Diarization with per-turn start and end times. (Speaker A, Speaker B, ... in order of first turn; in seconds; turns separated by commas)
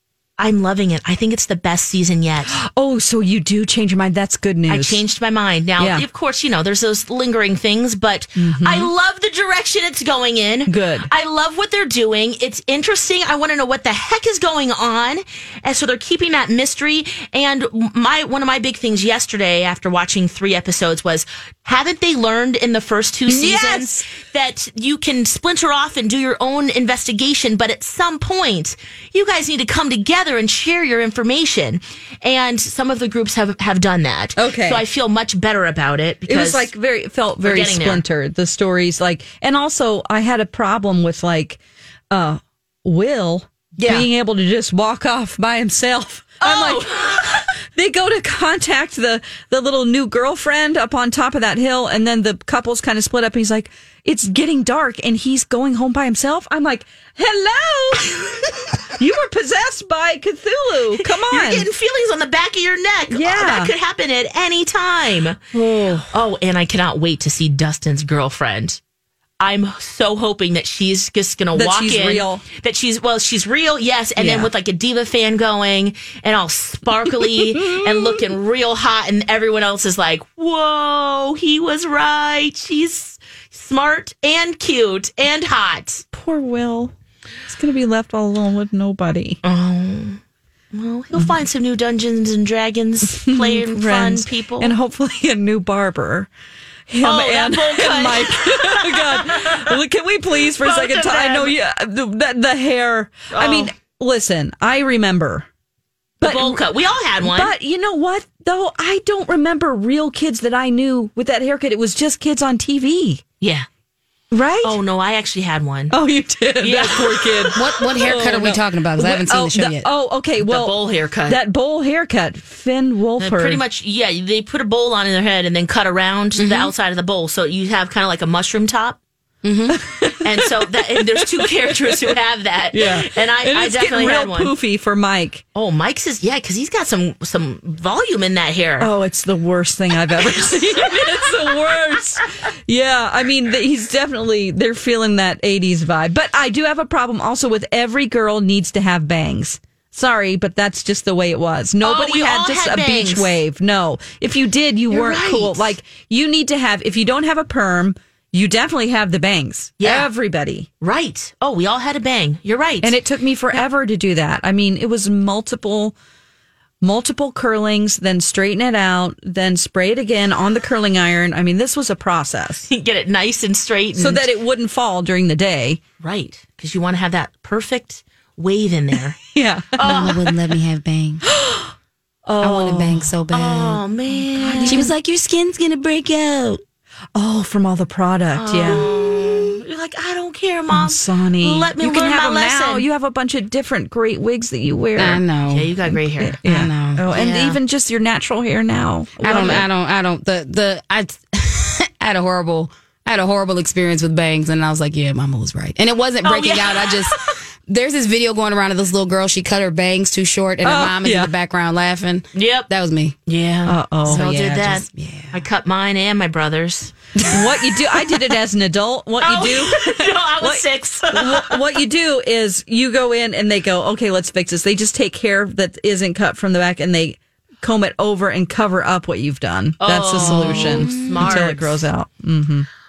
Speaker A: 0.4-2.6, Speaker B: 2.5-5.0, Speaker A: 4.7-36.7, Speaker B: 5.8-6.0, Speaker B: 8.4-8.9, Speaker B: 10.7-11.1, Speaker B: 23.3-24.1, Speaker B: 34.4-34.8, Speaker B: 36.3-41.6, Speaker A: 37.4-38.0, Speaker B: 42.1-58.1, Speaker A: 43.8-44.1, Speaker A: 46.4-47.5, Speaker B: 59.0-61.7, Speaker A: 61.0-65.5, Speaker B: 63.1-63.7, Speaker B: 65.5-66.1, Speaker A: 66.1-68.8, Speaker A: 69.4-86.0, Speaker B: 71.5-72.4, Speaker B: 74.2-74.5, Speaker B: 77.2-77.9, Speaker B: 86.1-86.9, Speaker B: 87.5-89.4, Speaker A: 89.4-90.2, Speaker A: 90.7-94.7, Speaker B: 93.1-96.3, Speaker B: 96.9-105.5, Speaker A: 97.0-99.8, Speaker A: 100.5-101.5, Speaker A: 103.3-103.7, Speaker B: 106.2-106.6, Speaker A: 106.2-107.5, Speaker B: 107.2-113.2, Speaker A: 113.4-113.7, Speaker B: 114.3-114.8, Speaker A: 114.6-116.0, Speaker B: 115.9-120.8, Speaker A: 116.6-117.6, Speaker C: 117.5-119.9, Speaker A: 120.4-121.4, Speaker B: 121.3-123.6, Speaker A: 123.2-129.0, Speaker C: 126.4-126.7, Speaker C: 129.4-129.8, Speaker B: 129.8-132.2, Speaker A: 130.2-134.5, Speaker B: 132.7-135.4, Speaker A: 135.6-138.9, Speaker B: 138.8-160.7, Speaker A: 140.2-141.8, Speaker A: 151.8-153.4, Speaker A: 154.9-155.7, Speaker A: 159.8-160.1, Speaker A: 160.8-162.9, Speaker B: 162.8-165.9, Speaker B: 166.8-172.7, Speaker A: 172.7-174.3, Speaker B: 173.9-175.8, Speaker A: 176.0-179.2, Speaker B: 179.3-180.4, Speaker A: 179.7-180.2, Speaker C: 179.8-181.2, Speaker B: 181.3-181.7, Speaker B: 182.3-183.1, Speaker C: 182.4-183.8, Speaker A: 183.3-184.9, Speaker B: 184.3-184.9, Speaker C: 184.6-186.6, Speaker B: 187.2-188.9, Speaker A: 188.3-192.9, Speaker B: 190.7-195.2, Speaker C: 195.0-195.8, Speaker A: 195.5-196.4, Speaker B: 196.2-199.7, Speaker C: 196.4-197.1, Speaker A: 197.1-197.6, Speaker C: 199.2-213.2, Speaker A: 206.2-207.4, Speaker B: 210.6-211.3, Speaker A: 212.3-212.7, Speaker A: 213.3-217.5, Speaker B: 213.7-214.3, Speaker C: 214.1-215.4, Speaker B: 217.2-232.7, Speaker A: 219.2-221.6, Speaker A: 229.8-231.8, Speaker C: 230.2-231.4